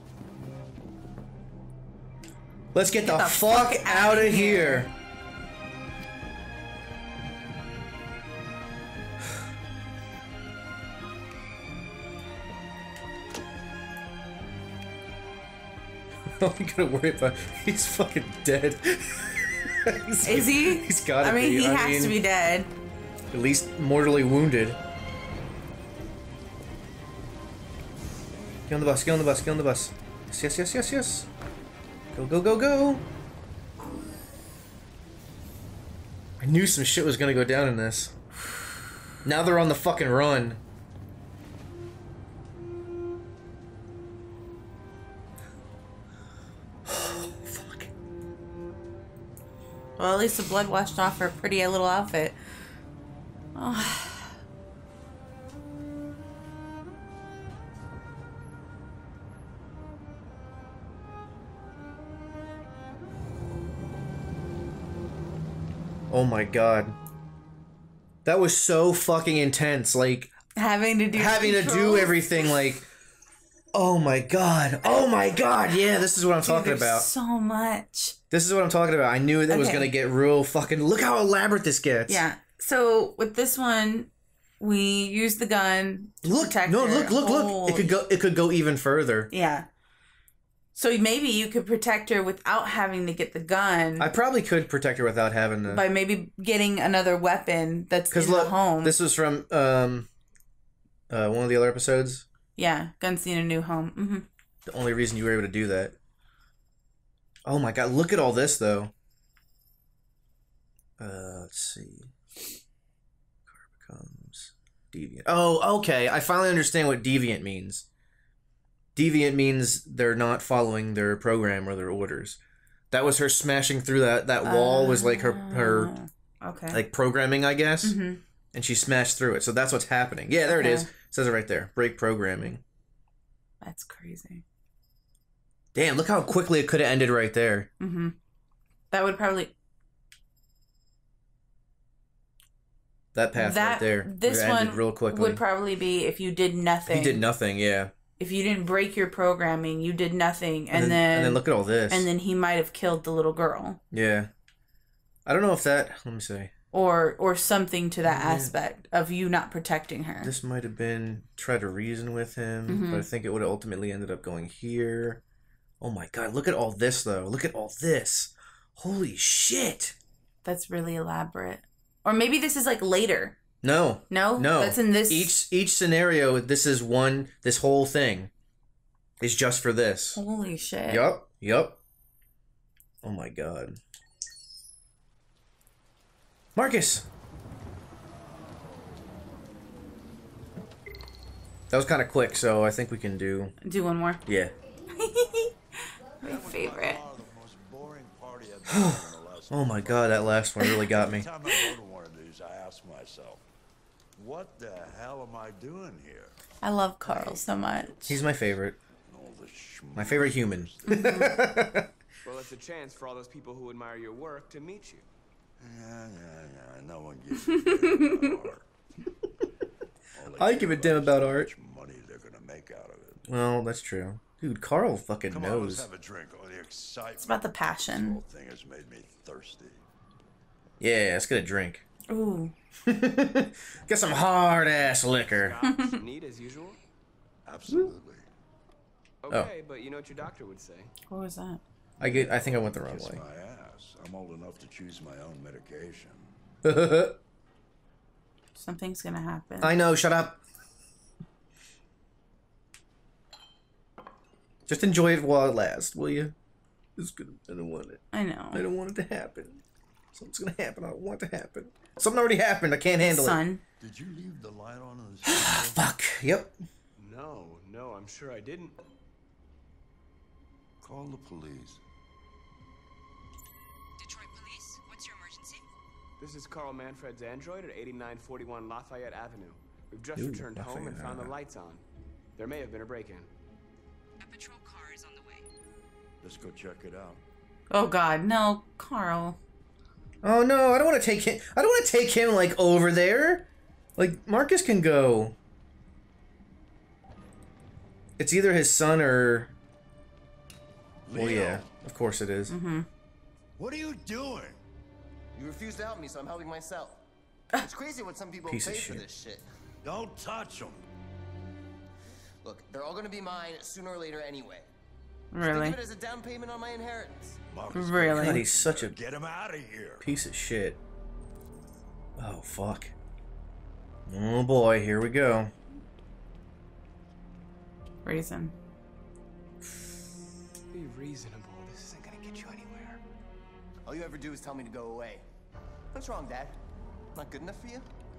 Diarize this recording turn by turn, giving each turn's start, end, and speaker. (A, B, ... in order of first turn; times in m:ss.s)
0:02.7-0:04.9 A
0:03.0-0:04.9 B
0:16.4-0:22.2 A
0:20.2-0:22.7 B
0:23.3-0:24.8 A
0:28.7-0:31.3 A
0:32.1-0:33.0 A
0:36.4-0:38.1 A
0:39.2-0:40.6 A
0:46.9-0:47.9 A
0:50.0-0:52.4 B
0:53.6-0:54.3 B
1:06.1-1:07.0 A
1:08.2-1:10.3 A
1:10.6-1:12.4 B
1:11.1-1:12.9 A
1:13.7-1:17.1 A
1:14.8-1:15.1 B
1:16.4-1:18.2 B
1:18.3-1:22.2 A
1:19.5-1:19.9 B
1:22.1-1:28.0 B
1:26.2-1:29.3 A
1:29.3-1:29.7 B
1:30.8-1:34.1 B
1:34.0-1:35.8 A
1:35.7-1:39.0 B
1:38.1-1:40.1 A
1:41.1-1:42.3 A
1:42.6-1:44.3 B
1:44.7-1:46.0 A
1:47.4-1:48.9 A
1:51.0-1:52.1 A
1:53.5-1:57.9 A
1:59.0-2:02.4 A
2:02.9-2:05.9 A
2:04.4-2:06.8 B
2:06.7-2:08.0 A
2:07.8-2:08.2 B
2:08.5-2:12.6 A
2:10.5-2:10.9 B
2:13.6-2:14.4 B
2:15.7-2:17.7 A
2:17.8-2:18.2 B
2:18.9-2:19.5 B
2:23.1-2:25.4 A
2:23.4-2:27.2 B
2:26.9-2:27.9 A
2:28.2-2:33.8 B
2:30.7-2:32.1 A
2:33.9-2:34.3 A
2:35.3-2:36.5 A
2:36.7-2:40.3 B
2:38.0-2:38.5 A
2:40.2-2:45.2 A
2:42.7-2:43.1 B
2:45.8-2:50.0 A
2:50.4-2:53.4 B
2:53.6-2:58.3 A
2:54.1-2:55.4 B
2:59.2-3:00.2 A
3:00.2-3:01.1 B
3:00.9-3:01.8 A
3:03.0-3:03.8 A
3:06.6-3:07.1 A
3:11.7-3:13.6 A
3:13.6-3:14.2 B
3:14.3-3:14.5 A
3:14.9-3:17.0 B
3:16.2-3:23.4 C
3:18.7-3:21.3 A
3:24.2-3:26.4 C
3:26.6-3:28.2 B
3:27.1-3:27.4 C
3:28.1-3:28.8 A
3:29.0-3:31.4 C
3:30.0-3:31.9 A
3:30.9-3:31.4 B
3:32.2-3:35.1 D
3:35.6-3:38.6 C
3:40.1-3:43.2 C
3:40.4-3:41.5 A
3:43.3-3:45.9 A
3:45.3-3:49.8 C
3:47.2-3:48.2 B
3:50.8-3:51.8 A
3:52.1-3:52.6 B
3:52.9-3:55.6 A
3:55.3-3:56.8 D
3:55.6-3:56.0 B
3:57.5-3:58.3 C
3:59.2-4:00.9 D
4:01.1-4:01.6 B
4:02.0-4:03.2 A
4:02.0-4:06.3 C
4:06.6-4:07.2 A
4:08.6-4:09.8 B
4:09.6-4:10.4 A
4:14.7-4:16.4 A
4:17.0-4:19.6 A
4:18.1-4:18.6 B
4:20.1-4:23.4 A
4:23.0-4:23.6 B
4:23.8-4:25.8 C
4:25.3-4:26.6 A
4:27.0-4:28.8 D
4:30.8-4:31.8 C
4:34.0-4:35.7 E
4:36.2-4:41.8 D
4:40.2-4:41.3 A
4:42.4-4:43.3 D
4:44.2-4:45.5 E
4:46.2-4:47.2 C
4:47.7-4:49.4 B
4:50.2-4:55.4 A
4:58.2-4:59.5 A
5:01.1-5:01.7 C
5:01.1-5:02.5 A
5:02.5-5:02.9 B
5:03.6-5:04.6 C
5:05.3-5:07.0 F
5:07.6-5:09.4 F
5:08.5-5:09.0 A
5:09.8-5:10.8 C
5:12.4-5:14.7 F
5:15.3-5:15.8 B
5:15.4-5:17.4 F
5:17.5-5:20.0 C
5:17.7-5:18.4 B
5:18.1-5:19.0 A
5:20.0-5:20.8 A
5:22.2-5:22.9 A
5:24.1-5:25.5 A
5:28.0-5:28.5 B
5:30.7-5:33.0 D
5:33.8-5:35.2 F
5:35.9-5:36.6 F
5:37.2-5:37.9 F